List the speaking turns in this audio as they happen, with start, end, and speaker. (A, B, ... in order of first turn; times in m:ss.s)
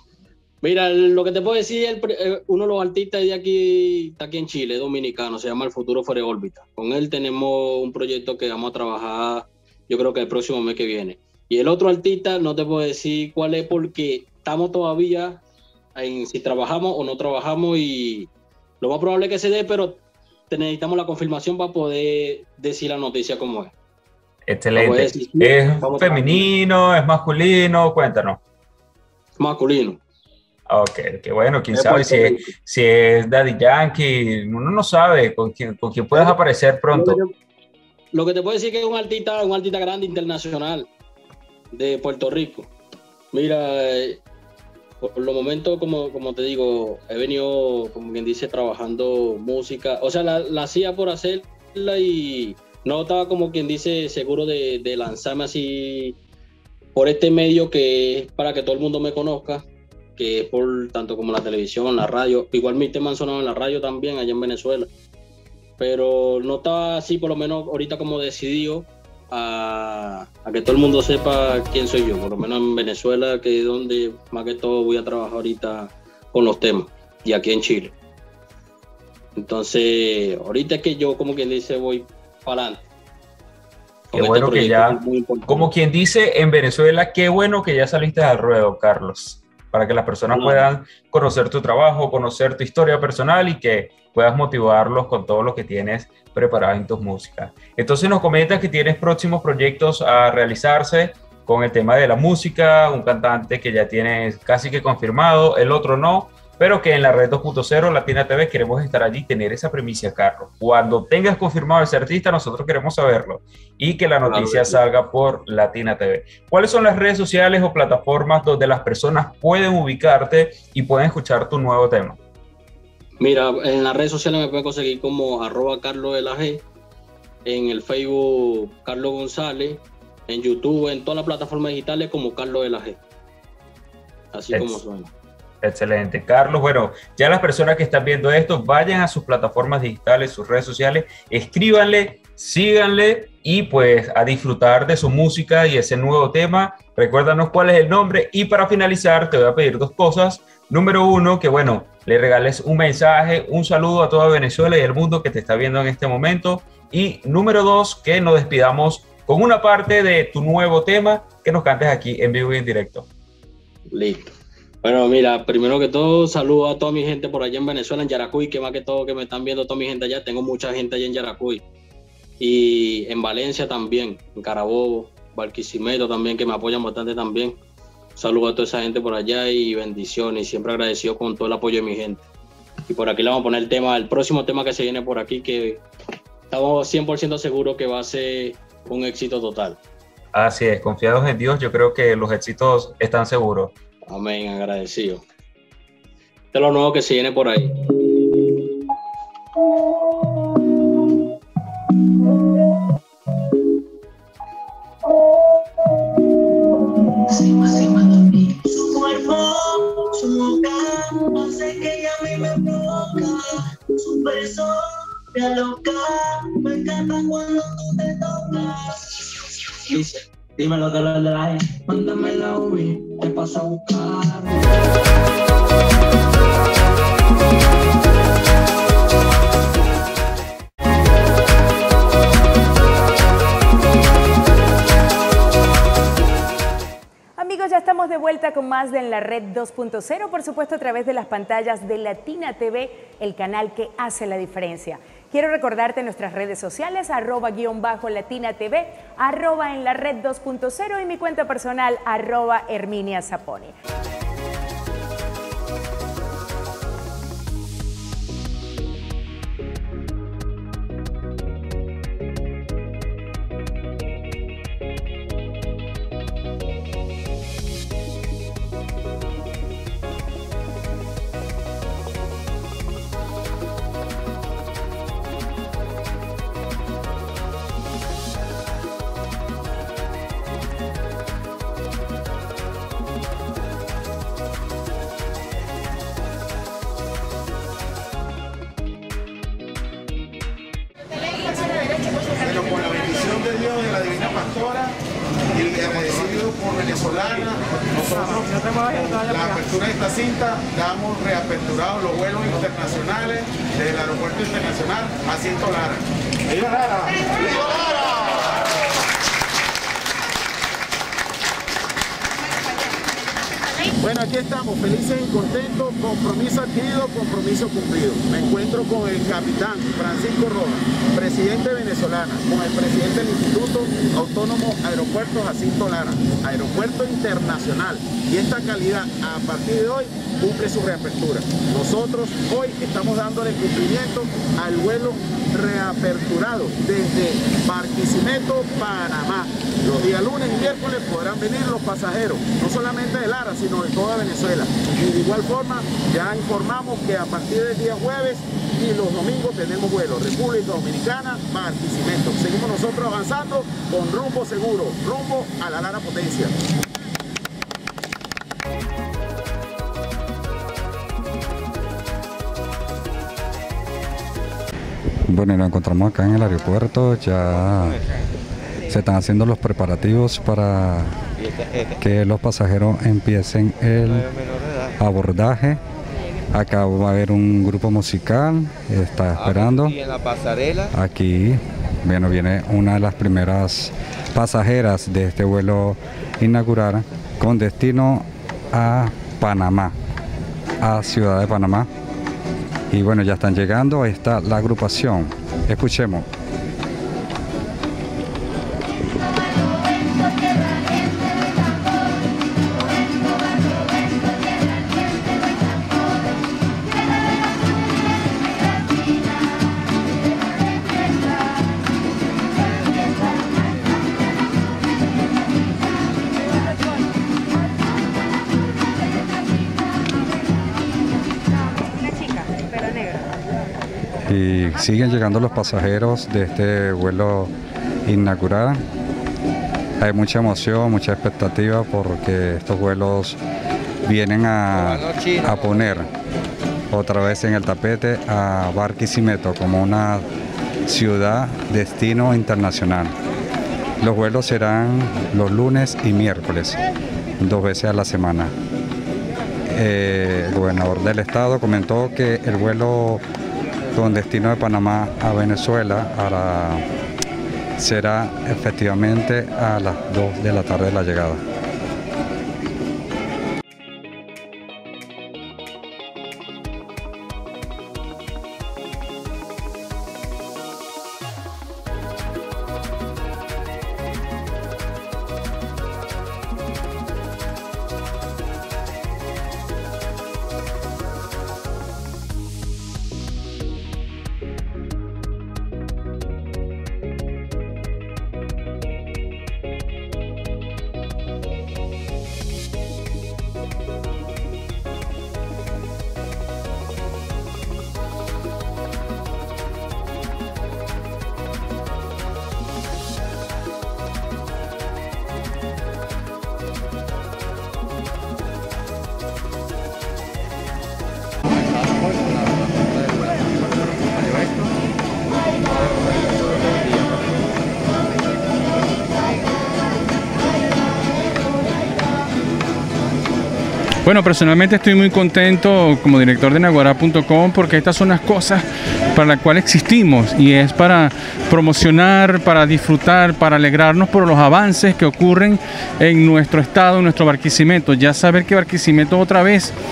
0:00.6-0:15.4 A
0:16.0-0:18.3 A
0:18.8-0:23.7 A
0:24.5-0:28.4 B
0:24.7-0:26.4 A
0:29.4-0:30.0 A
0:30.7-0:37.2 B
0:31.7-0:32.5 A
0:36.9-0:37.3 A
0:38.1-0:40.9 A
0:41.7-0:42.7 A
0:43.3-0:44.2 A
0:45.0-0:56.2 A
0:57.0-0:59.6 A
1:00.2-1:04.9 A
1:05.8-1:17.9 A
1:19.4-1:22.8 A
1:24.1-1:25.7 A
1:24.2-2:02.2 B
1:30.3-1:30.7 A
1:54.3-1:54.8 A
2:03.2-2:06.6 A
2:07.5-2:13.0 A
2:14.3-2:15.1 A
2:14.5-2:14.8 B
2:15.6-2:43.1 B
2:43.9-2:44.3 A
2:44.8-2:51.6 A
2:52.4-2:57.6 A
2:58.2-3:02.3 A
3:02.9-3:05.8 A
3:06.5-3:09.8 A
3:10.3-3:13.7 B
3:14.1-3:15.2 A
3:16.5-3:17.7 A
3:27.1-3:34.8 C
3:35.3-3:44.8 C
3:57.4-4:13.7 D
4:52.4-4:55.0 E
4:55.5-5:07.8 E
5:14.0-5:56.5 E
6:05.3-6:08.0 F
6:07.5-6:08.0 G
6:08.9-6:11.2 F
6:11.4-6:12.0 G
6:12.0-6:14.2 F
6:14.0-6:15.0 G
6:15.0-6:15.8 F
6:16.5-6:19.9 F
6:19.3-6:20.9 G
6:20.9-6:29.9 F
6:30.8-6:31.9 F
6:32.9-6:36.3 F
7:04.3-7:07.5 F
7:08.0-7:08.8 F
7:10.0-7:13.4 F
7:14.0-7:16.1 F
7:16.9-7:20.3 F
7:20.9-7:23.1 F
7:24.0-7:26.8 F
7:27.4-7:28.5 F
7:29.7-7:33.2 F
7:34.0-7:36.8 F
7:37.8-7:41.4 F
8:44.0-8:59.7 H